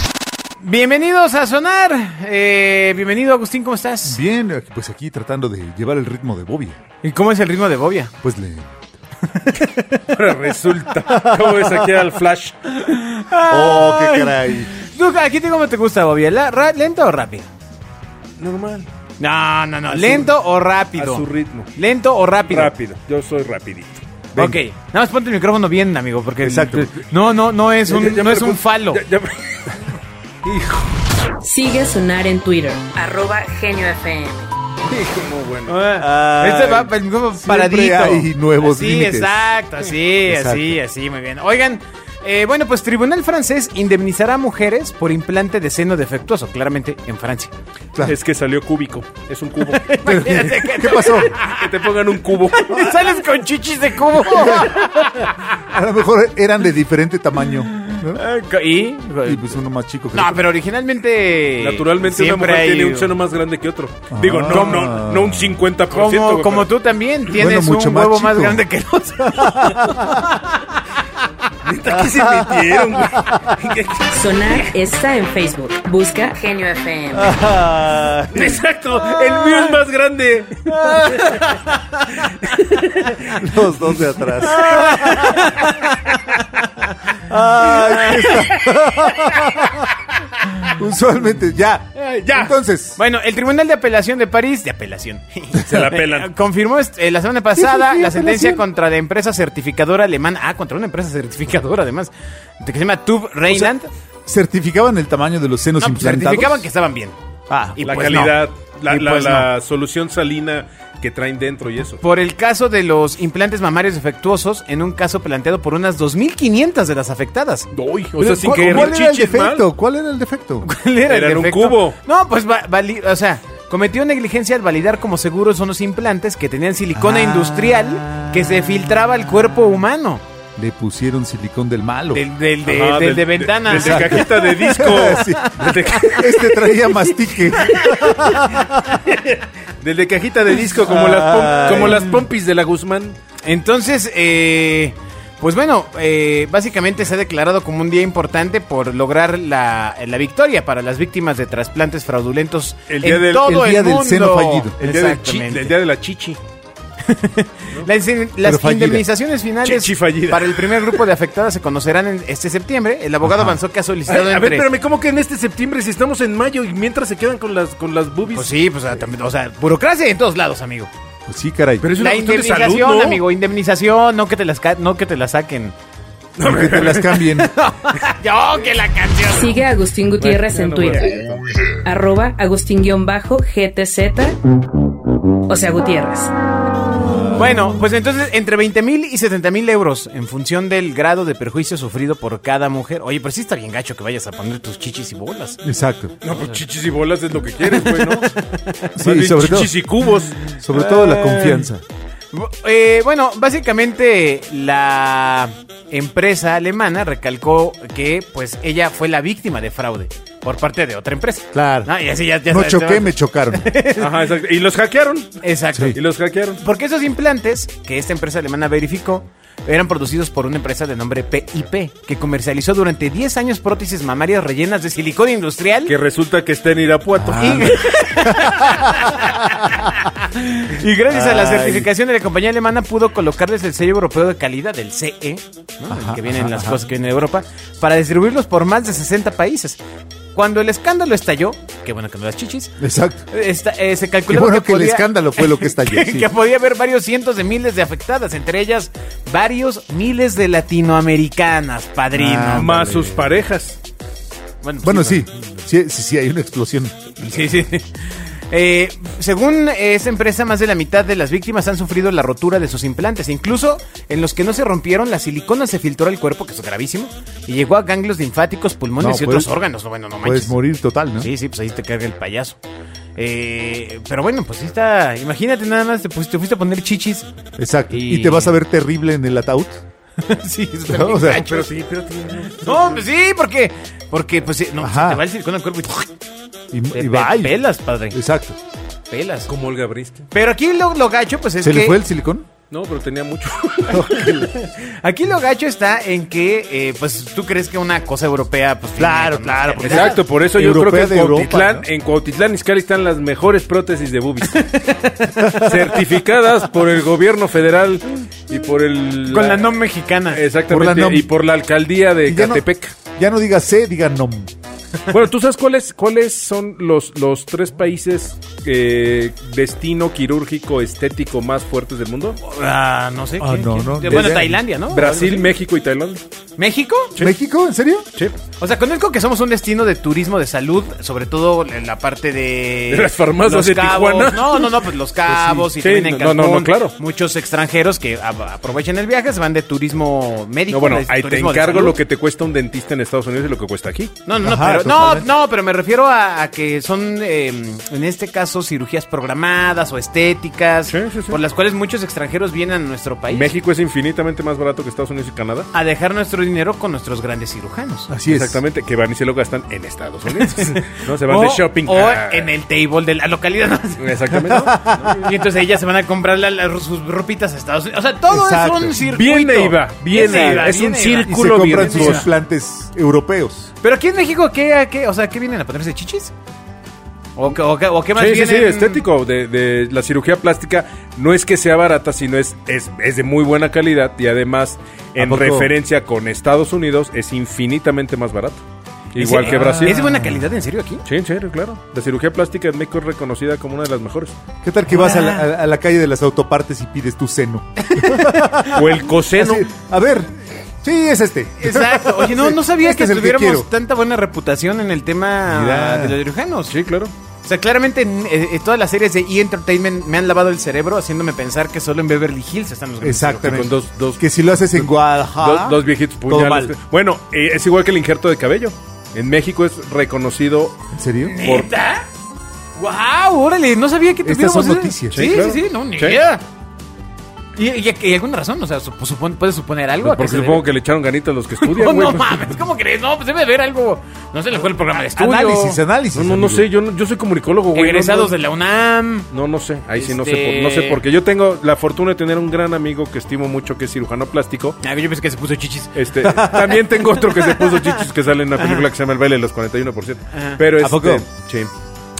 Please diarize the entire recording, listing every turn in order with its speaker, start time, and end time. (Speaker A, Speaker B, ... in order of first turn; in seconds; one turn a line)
Speaker A: 0.6-4.2
Speaker B: 4.0-6.8
Speaker A: 7.0-8.1
Speaker B: 8.2-8.7
Speaker A: 9.5-10.0
Speaker C: 10.1-12.5
Speaker A: 12.7-17.5
Speaker B: 13.5-14.7
Speaker C: 18.4-18.9
Speaker A: 19.2-21.2
Speaker C: 19.9-20.3
Speaker C: 20.9-21.7
Speaker A: 21.8-22.7
Speaker C: 22.5-24.0
Speaker B: 24.3-24.6
Speaker A: 24.3-29.0
Speaker B: 26.4-26.9
Speaker C: 26.7-27.1
Speaker C: 27.9-30.9
Speaker D: 31.4-34.5
Speaker C: 34.9-35.8
Speaker A: 35.7-47.5
Speaker B: 36.0-39.5
Speaker B: 40.2-40.8
Speaker C: 48.0-50.0
Speaker A: 49.6-51.8
Speaker B: 50.0-51.4
Speaker C: 51.3-52.9
Speaker A: 52.5-55.4
Speaker B: 55.7-58.2
Speaker A: 58.1-59.4
Speaker B: 59.2-60.4
Speaker A: 60.1-63.1
Speaker C: 61.6-66.7
Speaker B: 64.1-65.6
Speaker A: 64.5-64.9
Speaker A: 65.9-70.2
Speaker B: 67.4-68.6
Speaker B: 69.3-70.3
Speaker C: 71.6-74.1
Speaker B: 72.0-73.5
Speaker D: 74.1-77.4
Speaker B: 77.2-78.6
Speaker C: 78.3-81.5
Speaker A: 80.7-81.8
Speaker C: 82.2-83.5
Speaker B: 83.4-85.4
Speaker A: 84.2-86.1
Speaker B: 87.2-89.8
Speaker A: 87.7-88.5
Speaker C: 88.0-88.7
Speaker A: 89.1-89.6
Speaker B: 90.7-93.0
Speaker C: 92.0-92.5
Speaker A: 93.0-103.9
Speaker C: 95.6-96.3
Speaker B: 97.5-98.6
Speaker B: 104.2-106.7
Speaker A: 105.8-107.2
Speaker B: 107.5-107.8
Speaker A: 107.8-109.5
Speaker C: 107.8-112.0
Speaker A: 112.0-117.7
Speaker C: 117.7-119.6
Speaker B: 118.2-120.7
Speaker A: 118.4-119.2
Speaker A: 120.6-130.2
Speaker C: 121.0-122.0
Speaker B: 126.9-127.8
Speaker B: 130.6-132.2
Speaker A: 132.1-134.5
Speaker C: 132.6-136.6
Speaker B: 133.7-138.8
Speaker C: 137.5-143.2
Speaker B: 140.8-142.1
Speaker A: 141.5-142.1
Speaker A: 143.4-155.7
Speaker C: 152.9-153.5
Speaker B: 153.3-154.7
Speaker C: 154.8-156.4
Speaker A: 157.0-164.7
Speaker B: 158.4-159.0
Speaker C: 159.6-161.0
Speaker B: 163.2-163.6
Speaker C: 164.1-168.5
Speaker A: 168.3-170.9
Speaker B: 171.3-171.9
Speaker C: 171.8-173.2
Speaker A: 171.9-175.7
Speaker C: 176.4-177.3
Speaker B: 176.4-177.5
Speaker A: 177.4-179.6
Speaker D: 179.3-184.4
Speaker C: 180.2-181.4
Speaker D: 185.5-186.3
Speaker B: 187.1-187.5
Speaker A: 187.3-195.6
Speaker B: 195.6-196.1
Speaker C: 196.2-198.3
Speaker A: 197.7-198.8
Speaker B: 198.9-199.7
Speaker C: 199.0-200.5
Speaker A: 200.5-201.7
Speaker B: 200.6-201.8
Speaker A: 202.3-214.3
Speaker B: 211.5-211.9
Speaker B: 212.4-213.7
Speaker C: 213.9-216.6
Speaker A: 215.4-216.0
Speaker A: 216.6-225.9
Speaker C: 225.8-228.0
Speaker B: 227.2-229.3
Speaker A: 227.4-239.8
Speaker B: 231.1-231.9
Speaker B: 235.9-236.8
Speaker A: 240.3-242.7
Speaker B: 242.8-243.3
Speaker A: 243.3-252.7
Speaker B: 244.3-246.3
Speaker B: 252.1-253.2
Speaker C: 252.5-253.8
Speaker A: 254.6-255.2
Speaker B: 254.8-256.9
Speaker A: 257.2-270.5
Speaker B: 269.0-269.5
Speaker B: 270.2-271.3
Speaker A: 271.2-272.6
Speaker A: 273.1-277.3
Speaker B: 277.6-279.8
Speaker A: 277.9-278.5
Speaker A: 280.2-281.7
Speaker B: 280.9-281.4
Speaker C: 281.2-283.0
Speaker A: 282.6-286.1
Speaker B: 284.8-285.2
Speaker B: 286.7-287.6
Speaker A: 286.9-288.2
Speaker B: 288.1-288.6
Speaker A: 289.1-289.5
Speaker C: 289.5-290.3
Speaker A: 290.3-292.0
Speaker B: 291.6-292.5
Speaker C: 292.7-294.3
Speaker B: 293.9-294.5
Speaker A: 294.3-300.2
Speaker B: 299.0-301.9
Speaker C: 299.8-304.6
Speaker A: 304.5-305.7
Speaker C: 305.5-309.7
Speaker A: 309.3-310.4
Speaker C: 310.3-312.9
Speaker B: 310.7-311.3
Speaker B: 312.2-314.5
Speaker C: 315.1-322.4
Speaker A: 322.4-325.5
Speaker B: 323.4-324.6
Speaker C: 324.1-326.2
Speaker A: 326.6-327.1
Speaker B: 327.2-328.1
Speaker A: 328.6-342.0
Speaker C: 332.9-334.9
Speaker B: 335.3-335.7
Speaker C: 335.8-336.9
Speaker C: 340.7-344.1
Speaker A: 344.2-353.5
Speaker B: 344.4-345.3
Speaker C: 350.9-351.4
Speaker C: 353.3-355.7
Speaker A: 355.7-358.1
Speaker B: 358.1-358.6
Speaker C: 358.2-362.5
Speaker A: 360.4-372.3
Speaker C: 364.0-365.3
Speaker B: 364.3-365.2
Speaker B: 368.3-369.0
Speaker C: 368.9-372.3
Speaker B: 370.2-370.7
Speaker B: 371.2-373.7
Speaker A: 373.8-376.3
Speaker A: 377.4-379.0
Speaker C: 378.1-390.0
Speaker B: 385.2-385.7
Speaker A: 389.2-391.0
Speaker B: 389.2-390.4
Speaker C: 391.0-394.3
Speaker B: 394.6-403.7
Speaker A: 394.9-395.5
Speaker A: 397.9-398.8
Speaker C: 398.6-399.7
Speaker A: 401.6-406.7
Speaker B: 405.5-406.2
Speaker C: 406.7-407.1
Speaker A: 407.4-413.6
Speaker B: 413.0-416.7
Speaker C: 413.4-414.2
Speaker C: 415.4-420.8
Speaker B: 420.9-421.4
Speaker A: 421.2-422.1
Speaker C: 421.4-421.7
Speaker A: 422.8-426.4
Speaker B: 424.2-425.3
Speaker C: 425.1-426.2
Speaker A: 427.6-430.6
Speaker C: 430.0-432.6
Speaker A: 431.6-435.8
Speaker B: 435.1-436.7
Speaker C: 436.1-438.3
Speaker A: 437.7-439.3
Speaker C: 439.3-444.8
Speaker A: 440.0-441.0
Speaker A: 444.8-445.9
Speaker C: 445.9-451.7
Speaker B: 446.2-446.8
Speaker A: 447.2-448.0
Speaker A: 448.6-448.9
Speaker A: 450.3-450.6
Speaker B: 450.7-451.2